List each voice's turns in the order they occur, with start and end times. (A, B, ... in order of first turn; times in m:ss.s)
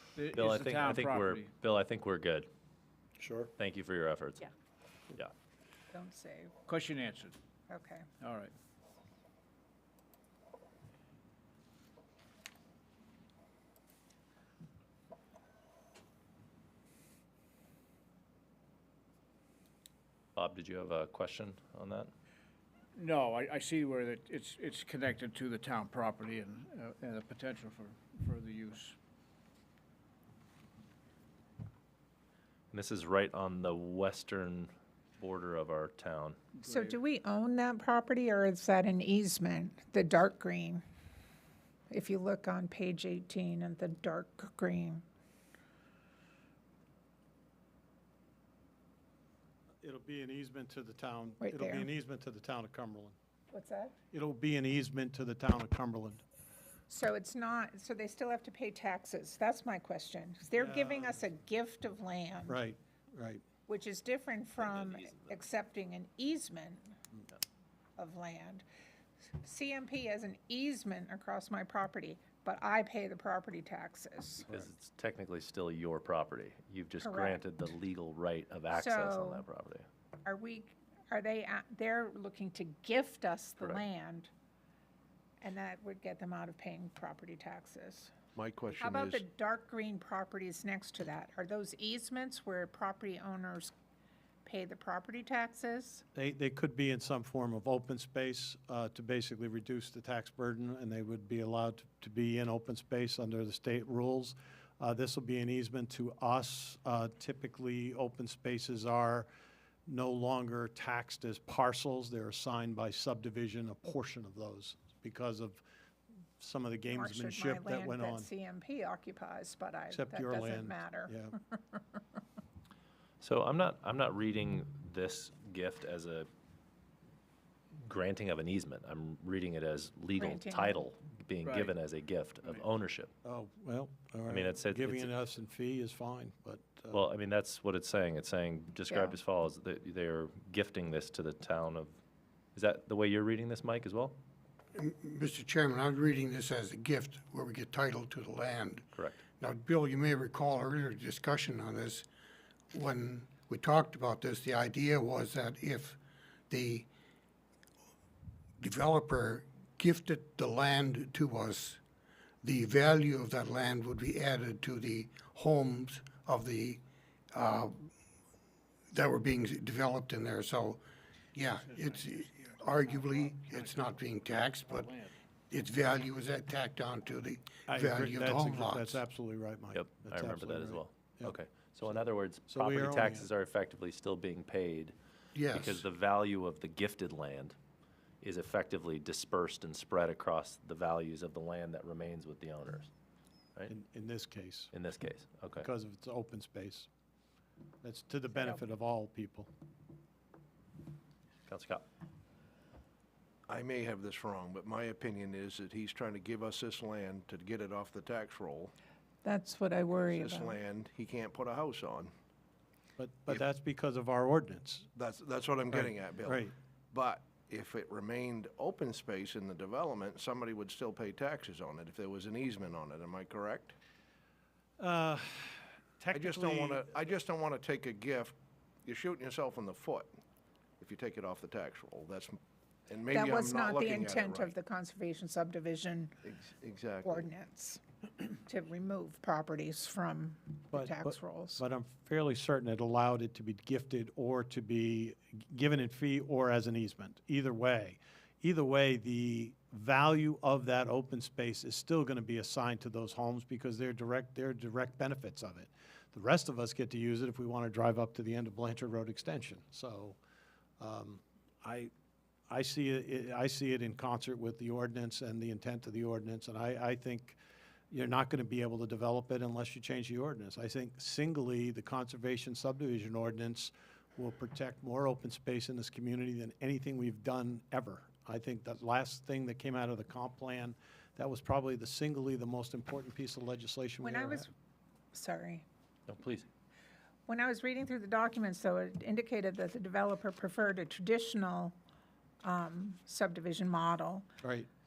0:00.2-0:01.5 A
0:00.2-0:02.5 B
0:03.2-0:03.5 C
0:03.6-0:04.4 B
0:05.9-0:06.5 D
0:06.7-0:07.3 A
0:07.7-0:08.1 D
0:08.2-0:08.5 A
0:20.3-0:22.1 B
0:22.9-0:29.0 A
0:32.7-0:36.4 B
0:36.6-0:40.8 D
0:36.6-0:36.9 A
0:41.9-0:45.0 D
0:49.8-0:53.2 C
0:51.4-0:51.9 D
0:53.5-0:53.9 D
0:54.1-0:56.2 C
0:56.9-1:02.6 D
1:00.6-1:01.0 C
1:02.5-1:03.4 C
1:03.7-1:07.0 D
1:08.0-1:08.6 D
1:09.4-1:14.6 D
1:14.5-1:19.8 B
1:17.0-1:17.5 D
1:18.7-1:19.4 D
1:20.2-1:24.3 D
1:25.4-1:28.1 D
1:28.3-1:29.2 E
1:28.8-1:33.7 D
1:34.4-1:36.0 D
1:36.2-1:49.3 C
1:49.9-1:55.6 C
1:56.4-1:58.3 C
1:56.9-2:01.8 D
1:59.9-2:01.3 C
2:03.2-2:06.3 B
2:07.8-2:13.1 B
2:10.2-2:10.8 D
2:11.4-2:11.8 A
2:13.2-2:17.0 C
2:14.3-2:15.2 B
2:16.9-2:22.0 B
2:18.9-2:19.2 D
2:22.5-2:24.2 B
2:24.7-2:28.9 F
2:29.4-2:32.0 F
2:32.7-2:36.0 F
2:36.5-2:36.9 F
2:38.6-2:41.8 F
2:42.4-2:47.9 F
2:48.9-2:50.8 F
2:51.3-2:54.9 F
2:51.6-2:54.0 A
2:54.6-2:55.1 A
2:55.5-2:59.0 F
2:57.7-3:01.3 C
2:59.7-3:04.9 B
3:02.5-3:03.3 C
3:05.3-3:05.8 F
3:05.5-3:07.6 B
3:08.2-3:12.9 B
3:13.7-3:14.7 C
3:14.7-3:15.7 B
3:15.6-3:16.9 C
3:17.8-3:19.5 C
3:18.3-3:18.6 D
3:21.5-3:21.8 B
3:23.5-3:28.7 E
3:29.2-3:30.6 D
3:29.9-3:32.1 E
3:33.0-3:34.8 C
3:34.9-3:43.8 E
3:35.7-3:36.5 C
3:44.8-3:46.9 C
3:46.1-3:50.1 E
3:50.8-3:54.5 E
3:53.1-3:56.1 D
3:56.2-3:57.3 E
3:57.0-3:57.8 D
3:58.3-4:01.6 D
4:00.7-4:20.2 C
4:20.8-4:21.9 C
4:22.5-4:27.4 C
4:27.9-4:44.4 C
4:44.0-4:44.5 D
4:45.1-4:45.6 D
4:46.1-4:46.5 B
4:47.3-4:51.7 D
4:52.4-4:54.3 D